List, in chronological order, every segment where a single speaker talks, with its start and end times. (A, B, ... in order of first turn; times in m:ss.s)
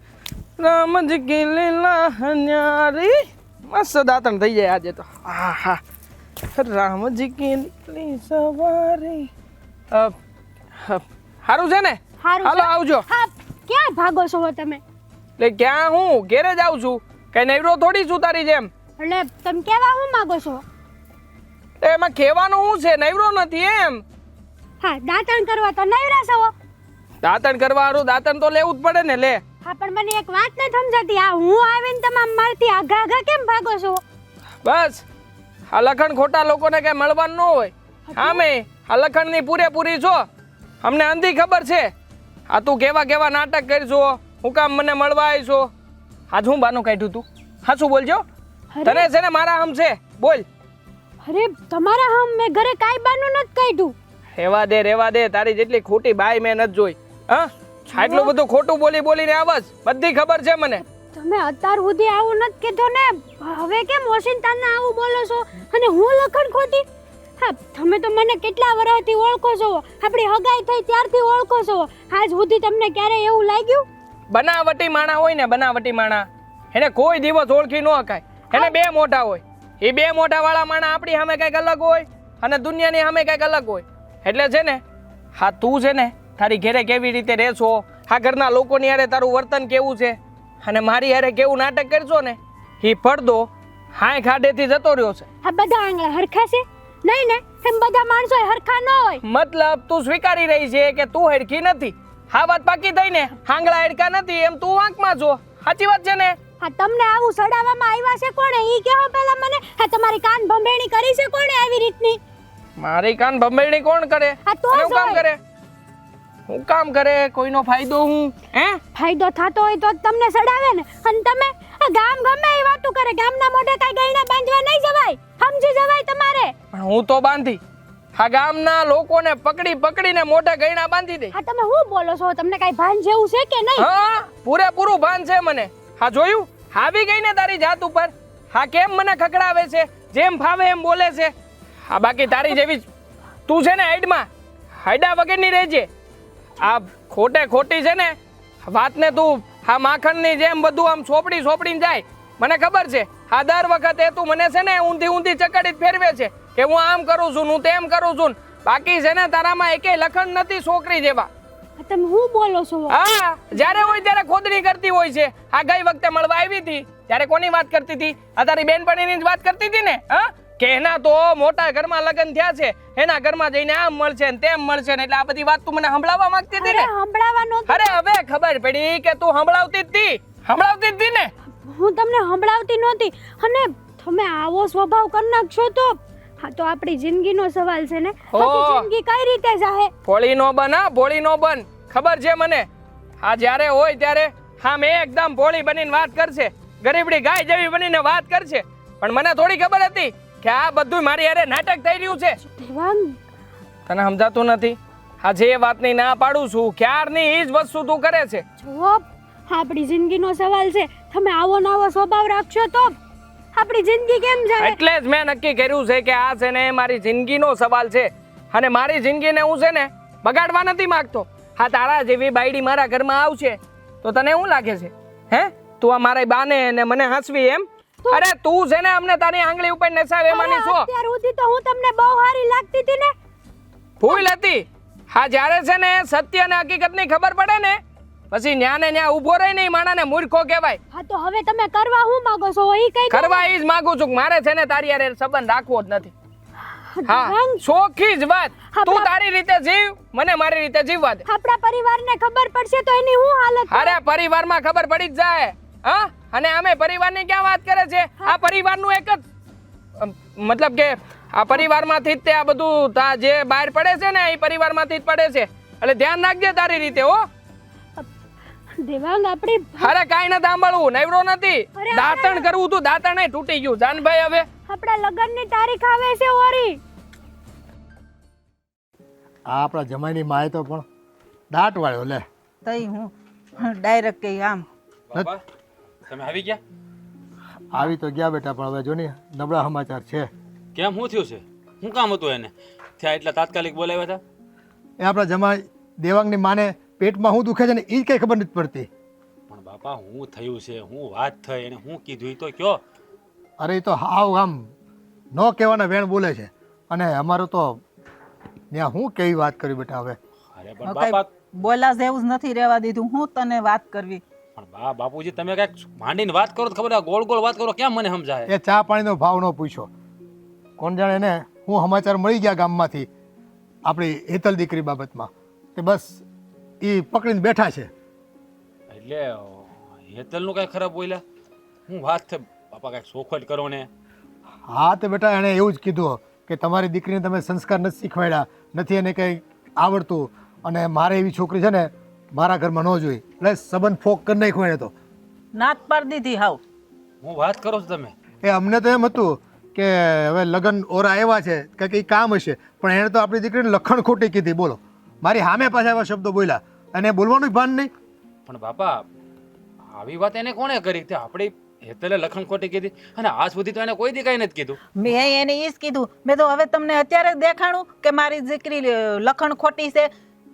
0:00.6-0:05.8 A
0:06.5-0:09.3 A
0:10.8-0:13.0 A
0:12.2-0:14.8 B
0:15.4-0:18.7 A
0:19.0-0:20.6 B
0:21.8-0:24.0 A
0:24.8-0:26.5 B
0:27.2-0:29.4 A
0:29.6-0:34.0 B
0:34.6-0:35.0 A
0:35.7-0:40.2 A
0:38.1-0:38.4 B
0:40.8-0:41.9 A
0:42.5-0:45.7 A
0:46.3-0:48.2 A
0:48.7-0:49.0 B
0:48.8-0:50.4 A
0:51.2-0:53.9 B
0:54.4-1:00.8 A
0:57.9-0:58.3 B
1:00.9-1:06.8 B
1:07.4-1:13.8 B
1:14.3-1:24.8 A
1:18.5-1:18.8 B
1:25.4-1:35.2 A
1:35.4-1:39.2 B
1:39.2-1:46.4 A
1:46.6-1:52.2 B
1:52.8-1:55.4 A
1:54.4-1:55.2 B
1:56.5-1:58.8 A
1:58.9-2:06.5 B
2:06.7-2:07.6 A
2:08.2-2:11.3 A
2:11.3-2:13.9 B
2:13.8-2:21.3 A
2:21.9-2:22.8 A
2:23.5-2:24.3 A
2:24.8-2:25.9 A
2:26.6-2:41.3 A
2:41.8-2:44.0 B
2:42.9-2:56.9 A
2:56.5-2:58.0 B
2:57.7-3:01.3 A
3:01.5-3:09.9 B
3:08.3-3:08.9 A
3:10.0-3:12.7 A
3:13.2-3:22.4 A
3:22.4-3:23.2 B
3:23.9-3:28.4 A
3:28.6-3:33.0 B
3:33.5-3:34.8 B
3:34.6-3:50.9 A
3:50.3-3:53.1 B
3:54.0-3:57.8 A
3:54.0-3:54.3 B
3:58.3-4:00.8 A
4:00.9-4:03.5 B
4:03.1-4:06.1 A
4:06.9-4:07.6 B
4:07.1-4:11.2 A
4:08.7-4:09.1 B
4:11.2-4:14.0 B
4:13.7-4:19.2 A
4:20.0-4:27.2 A
4:28.8-4:29.9 B
4:29.8-4:34.4 A
4:31.7-4:32.5 B
4:34.7-4:36.8 B
4:39.5-4:40.8 C
4:41.5-4:42.2 C
4:42.6-4:44.6 D
4:45.1-4:45.4 E
4:46.1-4:46.6 E
4:47.7-4:50.3 C
4:50.7-4:54.2 E
4:55.0-4:58.9 C
4:59.5-5:02.8 E
5:03.6-5:04.6 C
5:05.3-5:07.8 C
5:08.7-5:10.2 C
5:10.5-5:11.3 E
5:10.8-5:14.2 D
5:14.6-5:18.5 E
5:18.5-5:19.9 C
5:20.8-5:23.1 C
5:23.8-5:26.2 C
5:26.8-5:27.9 C
5:28.9-5:31.2 E
5:31.9-5:33.9 E
5:34.7-5:44.9 C
5:45.5-5:46.6 D
5:47.2-5:48.1 E
5:48.4-5:57.9 C
5:58.5-5:59.0 E
5:59.9-6:04.8 E
6:05.0-6:10.1 D